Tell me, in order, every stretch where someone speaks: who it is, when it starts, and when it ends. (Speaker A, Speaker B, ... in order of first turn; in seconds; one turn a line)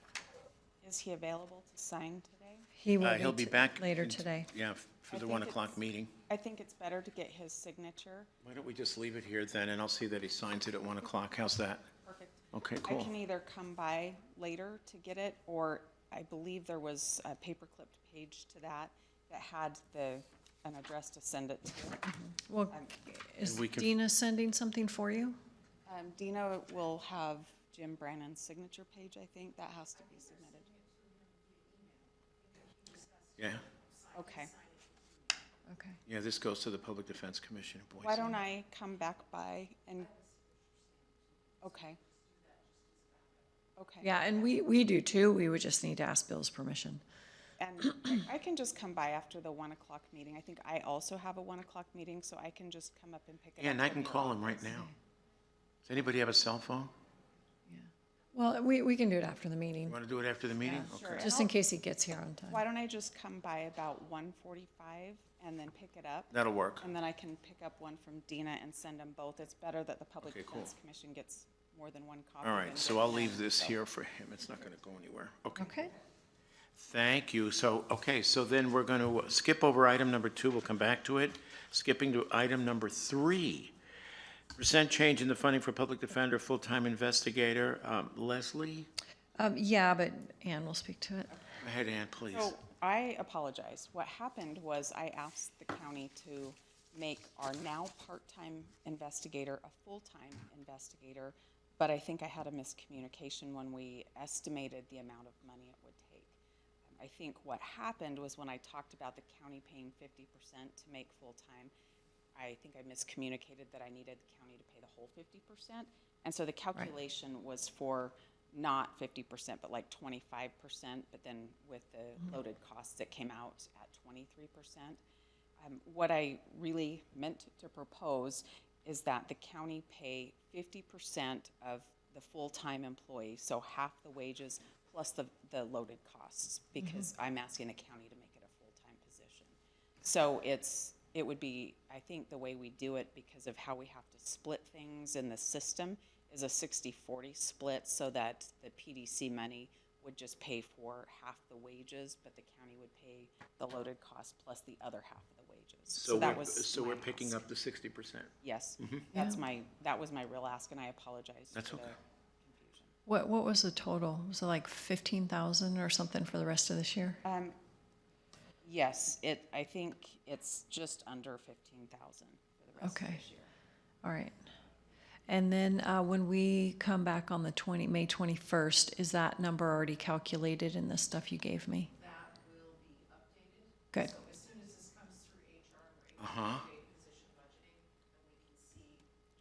Speaker A: 0.8-2.7
Speaker B: 2.8-4.5
Speaker C: 3.0-6.2
Speaker A: 5.1-5.8
Speaker A: 6.3-8.3
Speaker C: 8.4-11.9
Speaker A: 12.0-22.1
Speaker C: 12.5-13.1
Speaker B: 22.1-25.4
Speaker C: 23.4-23.9
Speaker A: 25.9-30.9
Speaker C: 33.4-33.7
Speaker A: 34.1-34.6
Speaker B: 35.7-36.0
Speaker C: 36.1-38.4
Speaker A: 38.0-40.1
Speaker A: 41.6-42.0
Speaker A: 43.8-44.3
Speaker B: 44.0-47.0
Speaker A: 47.6-54.7
Speaker C: 53.6-54.9
Speaker C: 55.9-56.9
Speaker B: 57.7-60.0
Speaker C: 59.9-61.3
Speaker A: 60.6-61.5
Speaker B: 61.2-62.6
Speaker A: 62.5-73.8
Speaker C: 66.3-66.9
Speaker C: 70.2-70.7
Speaker C: 72.4-75.9
Speaker B: 75.6-75.9
Speaker C: 76.8-83.7
Speaker C: 84.6-88.9
Speaker B: 89.4-91.3
Speaker C: 91.6-92.5
Speaker A: 92.3-106.4
Speaker A: 107.0-111.7
Speaker A: 112.4-125.0
Speaker A: 125.6-157.5
Speaker B: 136.8-137.1
Speaker C: 155.9-159.1
Speaker A: 158.4-162.9
Speaker C: 161.5-161.9
Speaker B: 163.1-167.2
Speaker A: 167.2-167.6
Speaker A: 168.6-173.5
Speaker B: 172.8-173.2
Speaker B: 174.0-174.4
Speaker B: 175.3-181.9
Speaker A: 182.0-183.7
Speaker B: 183.9-184.2
Speaker A: 184.2-189.0
Speaker C: 186.2-186.7